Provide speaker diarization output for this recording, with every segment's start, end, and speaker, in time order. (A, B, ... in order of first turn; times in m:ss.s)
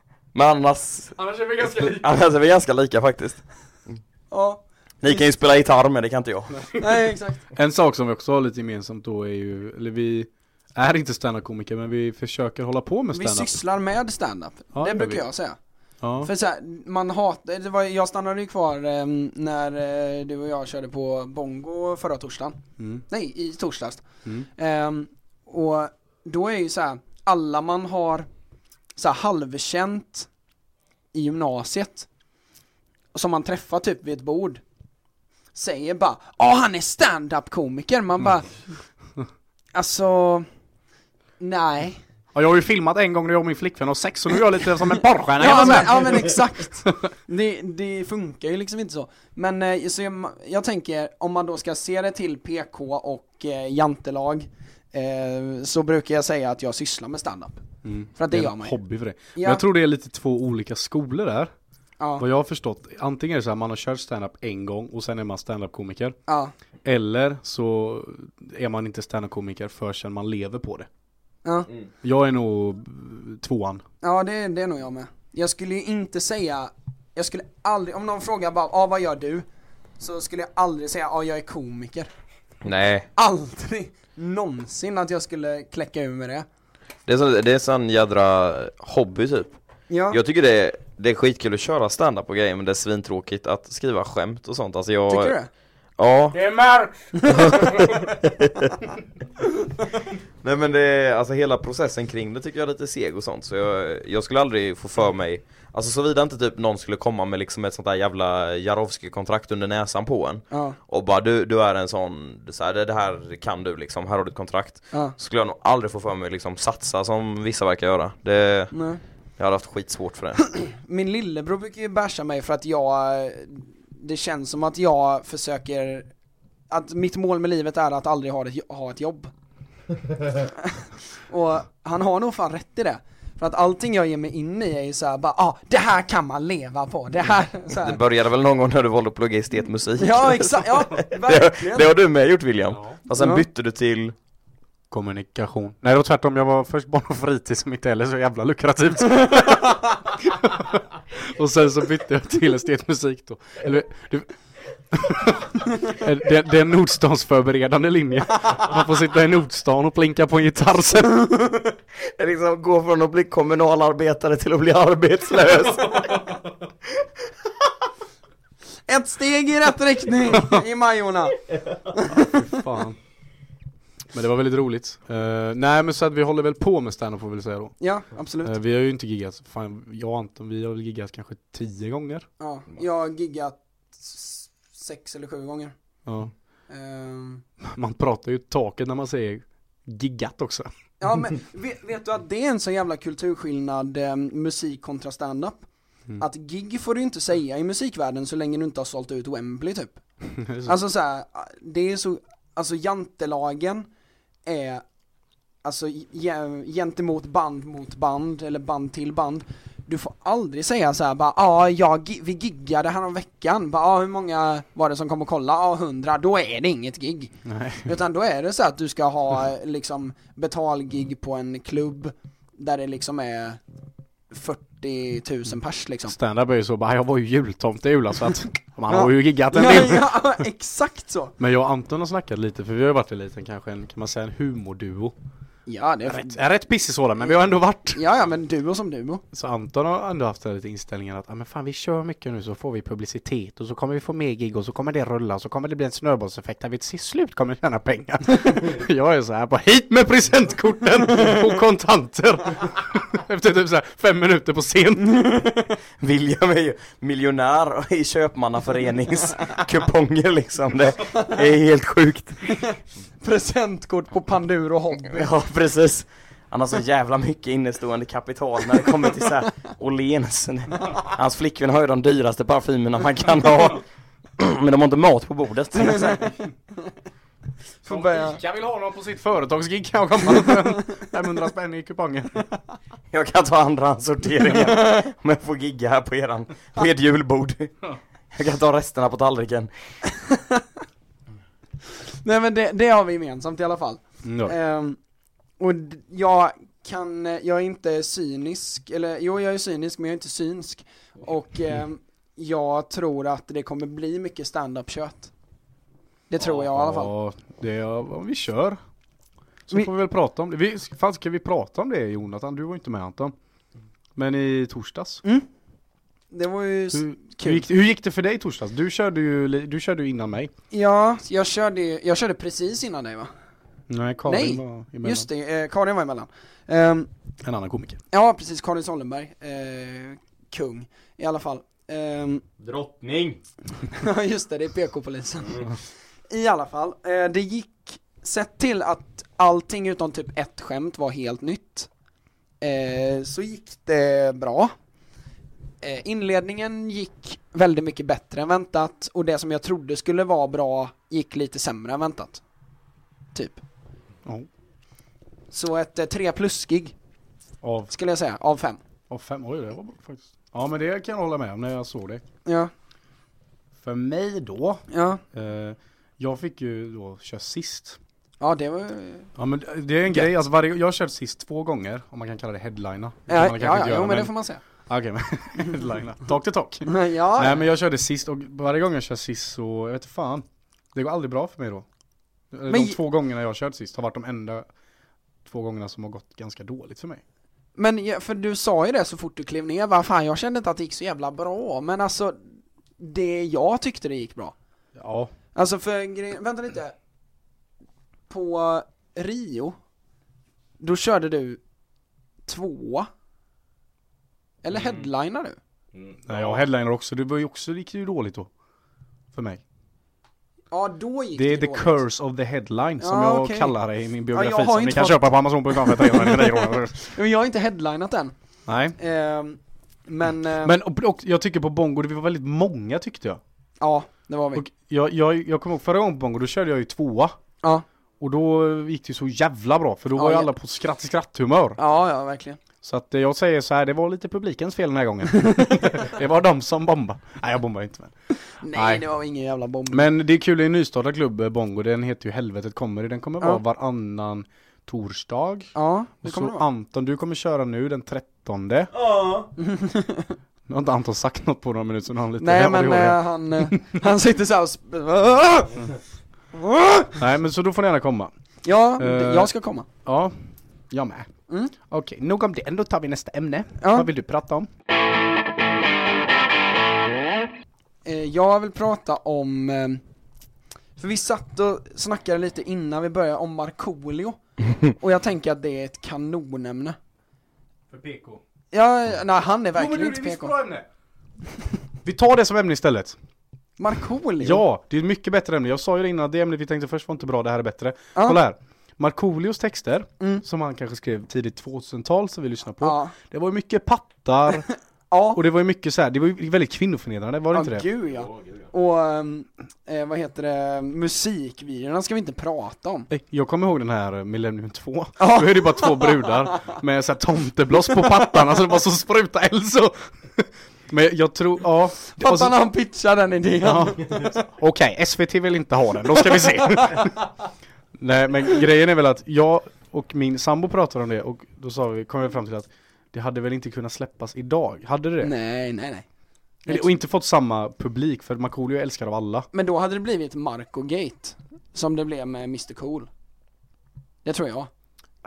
0:00.3-0:04.0 A
0:01.2-0:02.1 B
0:04.3-0:05.2 C
0:05.0-0:06.7 A
0:06.8-0:07.5 C
0:07.5-0:13.6 B
0:13.1-0:15.6 C
0:14.7-0:15.2 B
0:16.0-0:16.3 B
0:16.2-0:28.3 C
0:22.8-0:23.0 B
0:29.0-0:30.3 C
0:31.1-0:32.1 C
0:33.1-0:34.6 C
0:35.5-0:38.6 C
0:39.7-0:40.5 C
0:41.4-0:42.0 C
0:42.3-0:46.4 B
0:45.4-0:57.6 C
0:57.8-1:01.5 B
0:58.2-0:58.8 C
0:59.3-0:59.6 C
1:02.2-1:06.2 B
1:06.3-1:06.5 C
1:06.8-1:10.9 B
1:11.4-1:11.7 C
1:12.0-1:13.8 B
1:14.0-1:19.4 C
1:20.0-1:22.1 C
1:22.6-1:23.1 A
1:23.2-1:26.4 C
1:27.1-1:29.5 A
1:29.9-1:30.2 C
1:30.1-1:35.3 A
1:35.1-1:35.5 C
1:36.0-1:36.4 A
1:36.3-1:38.1 B
1:37.2-1:37.6 C
1:37.4-1:38.8 A
1:40.4-1:58.7 A
1:50.5-1:50.8 C
1:58.7-1:59.0 C
1:59.4-2:00.5 A
2:00.6-2:06.1 C
2:06.7-2:09.3 C
2:10.6-2:18.0 C
2:17.8-2:24.1 A
2:20.0-2:21.9 C
2:22.7-2:23.0 B
2:23.2-2:23.4 C
2:24.9-2:34.3 B
2:29.2-2:30.0 C
2:34.9-2:41.3 B
2:41.2-2:41.6 C
2:42.1-2:46.4 A
2:48.9-2:51.4 C
2:51.9-2:52.5 C
2:52.2-2:53.0 B
2:54.1-2:57.7 B
2:57.8-2:58.6 C
2:58.4-3:02.3 B
3:02.4-3:05.7 C
3:06.0-3:06.3 B
3:06.7-3:07.4 C
3:07.6-3:10.7 B
3:11.0-3:15.6 C
3:16.2-3:20.0 C
3:20.3-3:20.8 B
3:20.6-3:23.9 C
3:24.4-3:24.8 C
3:25.6-3:43.6 C
3:37.4-3:37.9 B
3:44.3-3:46.2 C
3:46.1-3:50.4 B
3:48.9-3:51.3 C
3:51.4-3:55.1 B
3:55.6-3:56.4 C
3:56.0-3:58.0 B
3:57.9-3:59.2 C
3:59.3-4:15.4 B
4:15.0-4:15.8 C
4:16.0-4:22.4 A
4:22.5-4:25.3 C
4:25.1-4:33.8 A
4:34.4-4:36.3 A
4:35.8-4:36.3 C
4:37.8-4:38.4 C
4:37.8-4:42.4 B
4:43.1-4:47.8 A
4:44.6-4:45.0 C
4:48.3-4:49.7 A
4:50.1-4:50.6 C
4:52.1-4:55.0 C
4:54.2-4:54.5 B
4:55.6-5:05.3 C
5:06.3-5:07.1 C
5:06.4-5:08.8 B
5:09.7-5:13.3 B
5:14.1-5:15.2 B
5:16.3-5:17.6 C
5:16.9-5:20.5 B
5:20.7-5:23.3 C
5:23.9-5:25.3 B
5:24.2-5:27.1 C
5:27.4-5:28.0 B
5:28.1-5:32.4 C
5:32.6-5:33.4 A
5:33.9-5:41.9 C
5:42.6-5:44.7 C
5:45.8-5:52.4 C
5:53.3-5:53.6 C
5:55.5-5:56.9 C
5:57.6-5:57.9 B
5:57.9-5:58.8 C
5:59.1-6:02.2 B
6:02.4-6:02.7 C
6:03.8-6:08.0 B
6:04.9-6:05.2 C
6:08.4-6:09.3 C
6:09.4-6:14.3 B
6:13.3-6:14.6 C
6:14.8-6:21.8 B
6:16.8-6:17.6 C
6:22.5-6:24.7 B
6:22.7-6:23.0 C
6:25.4-6:27.2 B
6:27.8-6:34.5 C
6:35.0-6:35.3 B
6:35.5-6:37.0 C
6:38.3-6:39.8 C
6:40.8-6:41.6 C
6:42.4-6:43.1 C
6:44.6-6:45.6 C
6:46.2-6:48.5 B
6:49.3-6:49.6 B
6:50.7-6:52.0 C
6:51.4-6:57.1 B
6:53.0-6:53.7 C
6:54.3-6:58.3 C
6:58.7-6:59.0 B
6:59.0-7:00.7 C
7:00.6-7:03.4 B
7:03.8-7:04.6 C
7:04.5-7:07.3 B
7:08.2-7:11.8 B
7:10.2-7:10.5 C
7:11.8-7:12.6 C
7:12.8-7:18.1 B
7:18.5-7:20.1 C
7:18.7-7:19.0 B
7:19.9-7:28.9 B
7:25.7-7:26.6 C
7:28.9-7:29.5 A
7:29.6-7:30.4 C
7:30.7-7:34.0 B
7:32.4-7:35.8 C
7:36.5-7:37.2 C
7:37.2-7:38.3 B
7:38.6-7:39.9 C
7:39.0-7:39.5 B
7:40.0-7:41.3 B
7:41.8-7:44.7 B
7:43.8-7:44.1 C
7:48.0-7:50.0 C
7:51.0-7:57.0 C
7:57.9-7:58.4 B
7:58.7-8:00.5 C
7:59.7-8:00.8 B
8:02.0-8:03.2 B
8:03.8-8:04.6 C
8:04.4-8:14.7 B
8:12.8-8:13.1 C
8:15.1-8:15.4 C
8:15.3-8:17.8 B
8:17.5-8:23.1 C
8:23.1-8:32.5 B
8:25.2-8:26.4 C
8:32.2-8:34.4 C
8:33.6-8:37.2 B
8:36.3-8:37.3 C
8:38.0-8:45.3 B
8:45.2-8:46.0 C
8:46.6-8:49.5 B
8:49.5-8:53.1 C
8:54.2-8:54.7 C